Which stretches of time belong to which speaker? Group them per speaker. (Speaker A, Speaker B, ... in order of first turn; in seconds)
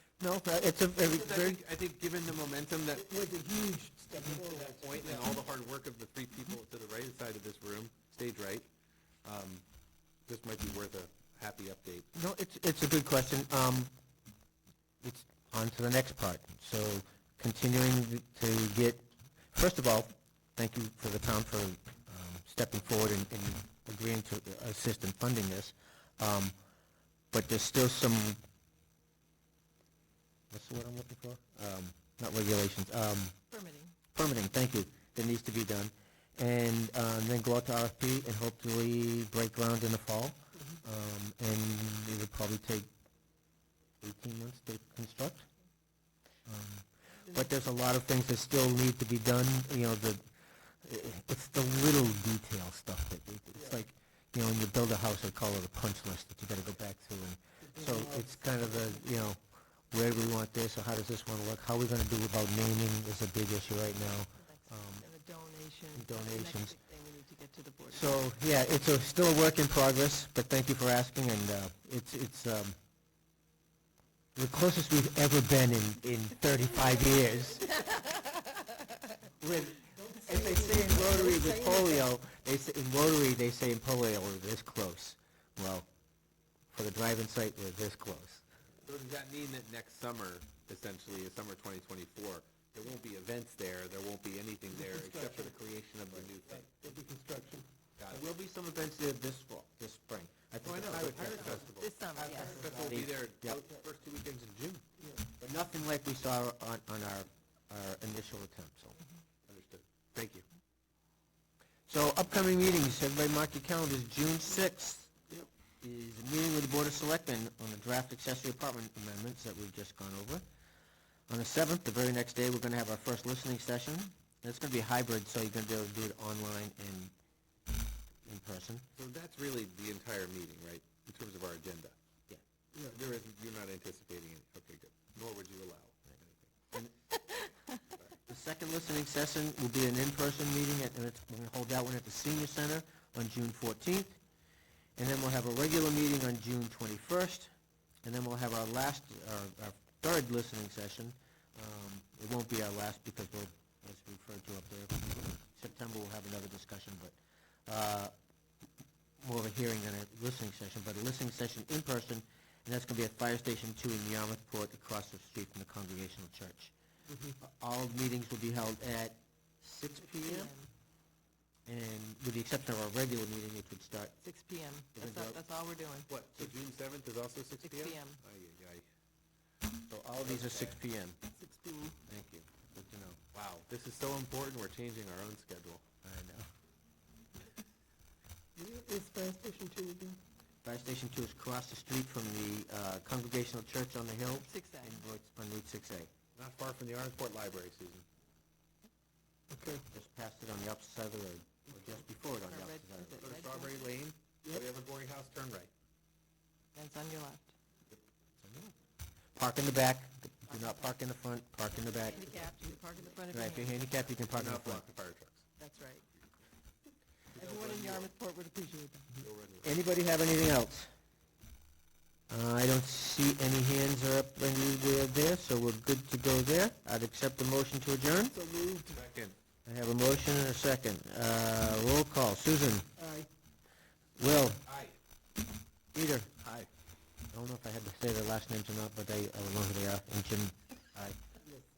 Speaker A: 0.2-1.6, 12.1-13.9, 15.0-26.5, 27.3-28.4, 30.5-33.3, 34.1-42.9, 44.0-45.5, 46.5-50.2, 50.8-59.4, 59.9-65.1, 66.0-66.8, 67.9-72.8, 74.4-77.8, 79.4-85.9, 86.7-88.4, 98.1-101.7, 102.7-103.6, 105.4-109.0, 111.9-115.2, 115.8-120.4, 121.3-127.1, 128.2-128.8, 138.3-144.2, 145.0-147.5, 148.1-158.1, 159.2-166.7, 167.4-170.5, 171.7-174.2, 175.0-175.4, 179.9-181.2, 182.1-183.2, 186.0-186.5, 190.6-196.1, 199.9-203.2, 208.4-208.7, 209.3-212.3, 213.3-214.8, 219.6-220.9, 222.3-228.4, 229.7-232.9, 234.2-234.6, 235.9-236.3, 237.3-241.2
Speaker B: 1.0-3.1, 4.2-8.7, 9.2-9.6, 10.3-12.1, 88.8-96.7, 98.0-98.2, 100.6-104.8, 109.5-110.5, 128.9-132.0, 132.9-136.7, 176.1-178.8, 180.2-180.8, 183.3-185.8, 196.4-198.1, 203.2-205.7, 214.0-215.4, 217.3-218.1, 219.2-219.8, 228.9-229.4, 234.6-235.0, 236.4-236.7
Speaker C: 3.0-5.3, 53.5-53.8, 57.6-58.9, 80.6-81.3, 94.7-95.6, 96.4-97.7, 102.2-103.0, 105.0-105.3, 188.6-190.2, 199.5-199.8, 212.3-213.2, 228.3-229.0, 233.0-233.3
Speaker D: 33.5-34.0, 64.4-68.2, 77.8-78.5, 80.0-82.0, 101.6-102.7, 170.1-170.7, 174.2-176.1, 177.6-178.2, 181.3-182.0, 194.3-195.1, 202.4-203.9, 206.8-207.5, 210.5-211.0, 211.8-214.0, 215.6-216.1, 217.3-219.1